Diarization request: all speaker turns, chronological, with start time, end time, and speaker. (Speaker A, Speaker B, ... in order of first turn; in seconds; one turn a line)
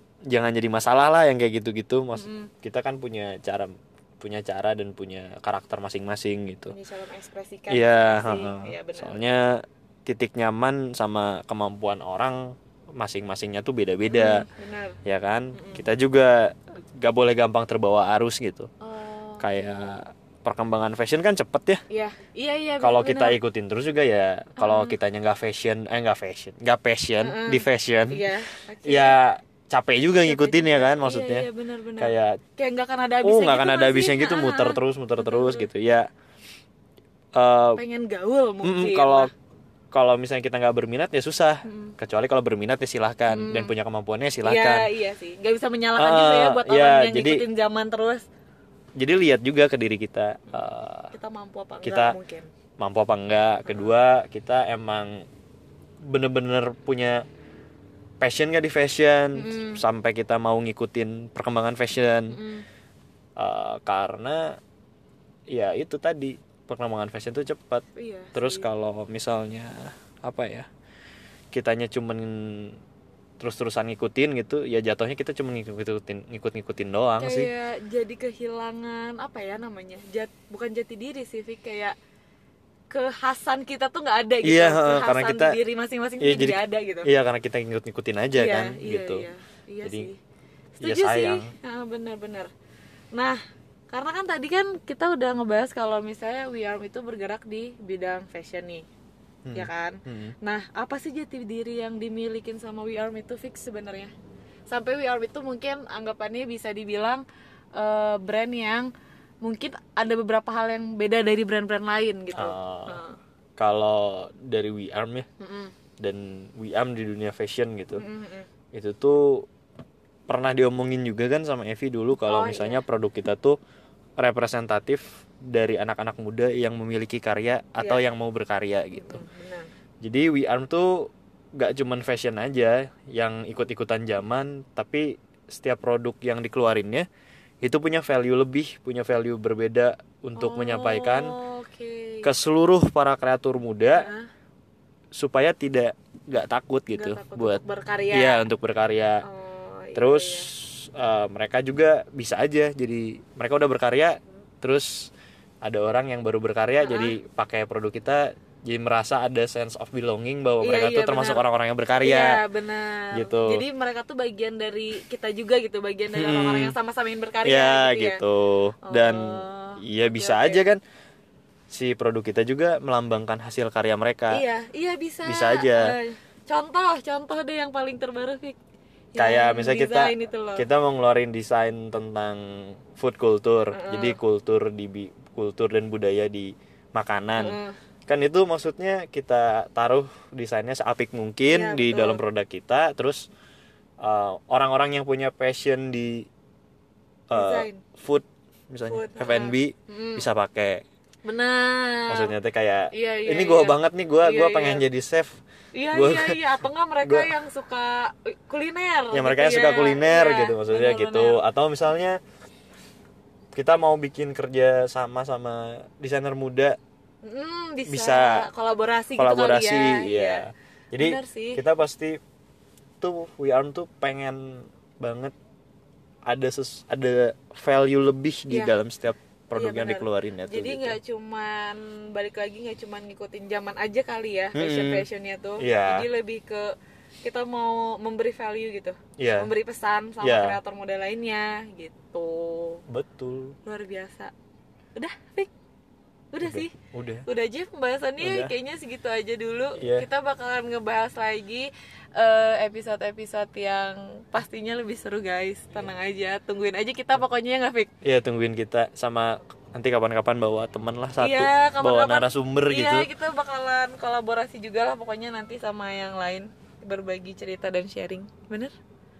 Speaker A: 0.3-6.7
Speaker B: 2.1-2.5
Speaker B: 6.7-9.2
Speaker A: 7.7-14.4
Speaker B: 14.1-15.0
Speaker A: 15.0-18.7
Speaker B: 15.5-15.8
Speaker B: 18.8-19.9
Speaker A: 19.4-21.8
Speaker B: 21.9-23.4
Speaker A: 22.8-28.3
Speaker B: 24.6-24.9
Speaker B: 27.2-29.1
Speaker A: 28.9-31.4
Speaker B: 30.2-35.7
Speaker A: 32.0-32.4
Speaker A: 33.2-36.1
Speaker A: 37.3-37.8
Speaker B: 37.8-39.3
Speaker A: 38.6-39.3
Speaker A: 39.9-44.9
Speaker B: 41.6-41.9
Speaker B: 43.3-43.7
Speaker B: 44.4-48.2
Speaker A: 46.0-47.4
Speaker A: 49.0-51.1
Speaker B: 50.5-52.5
Speaker A: 51.8-52.1
Speaker A: 52.8-55.2
Speaker B: 53.6-53.9
Speaker A: 56.0-57.2
Speaker A: 58.2-62.4
Speaker B: 59.3-59.8
Speaker B: 62.3-62.6
Speaker A: 63.4-64.6
Speaker A: 65.5-67.8
Speaker B: 67.9-68.7
Speaker A: 68.3-70.7
Speaker A: 71.5-72.8
Speaker A: 73.4-77.5
Speaker B: 77.2-81.9
Speaker B: 82.9-87.1
Speaker A: 84.4-85.6
Speaker A: 86.2-89.3
Speaker B: 88.3-90.2
Speaker A: 89.8-90.1
Speaker B: 90.8-92.5
Speaker A: 90.8-91.5
Speaker B: 93.1-93.4
Speaker B: 93.9-98.8
Speaker A: 99.4-100.3
Speaker B: 99.5-104.1
Speaker B: 104.7-107.2
Speaker B: 107.8-108.9
Speaker B: 109.4-113.2
Speaker A: 112.3-113.0
Speaker A: 113.6-115.3
Speaker B: 115.4-115.7
Speaker A: 116.0-118.0
Speaker B: 117.9-118.5
Speaker A: 118.7-119.5
Speaker A: 120.3-123.6
Speaker B: 122.2-122.8
Speaker A: 124.2-129.2
Speaker B: 128.9-129.7
Speaker A: 130.0-137.1
Speaker A: 137.6-141.3
Speaker B: 140.4-142.3
Speaker A: 142.2-144.1
Speaker B: 143.9-144.3
Speaker A: 145.1-149.2
Speaker B: 146.9-148.4
Speaker B: 149.2-150.5
Speaker A: 149.9-155.1
Speaker A: 155.6-162.4
Speaker B: 156.8-157.2
Speaker B: 160.6-161.4
Speaker B: 162.0-168.2
Speaker A: 163.1-163.6
Speaker A: 166.1-166.7
Speaker A: 167.4-170.8
Speaker B: 168.8-170.7
Speaker A: 171.7-174.4
Speaker B: 174.3-178.6
Speaker A: 175.2-175.9
Speaker B: 179.1-180.7
Speaker A: 179.2-193.3
Speaker B: 183.7-184.2
Speaker B: 187.4-187.7
Speaker B: 191.5-192.2
Speaker A: 194.0-196.3
Speaker A: 197.3-200.8
Speaker B: 197.3-197.8
Speaker B: 198.9-200.2
Speaker B: 201.2-202.3
Speaker A: 202.1-205.4
Speaker B: 202.9-204.8
Speaker B: 205.7-211.4
Speaker A: 205.9-206.4
Speaker A: 207.0-207.3
Speaker A: 209.1-212.2
Speaker A: 213.5-216.8
Speaker B: 217.2-220.4
Speaker A: 217.8-218.4
Speaker A: 219.2-222.2
Speaker B: 220.9-221.6
Speaker A: 223.0-225.3
Speaker A: 226.2-231.0
Speaker B: 228.5-228.7
Speaker B: 229.5-236.7
Speaker A: 234.5-235.1
Speaker A: 235.6-236.1
Speaker B: 237.2-242.8
Speaker A: 239.2-239.5
Speaker A: 240.2-240.6
Speaker A: 242.9-243.6
Speaker B: 243.6-244.3
Speaker B: 244.9-245.5
Speaker B: 246.3-246.7
Speaker A: 246.4-247.2
Speaker B: 247.2-257.9
Speaker A: 248.2-248.5
Speaker A: 249.8-250.1
Speaker A: 258.0-263.1
Speaker B: 261.2-268.7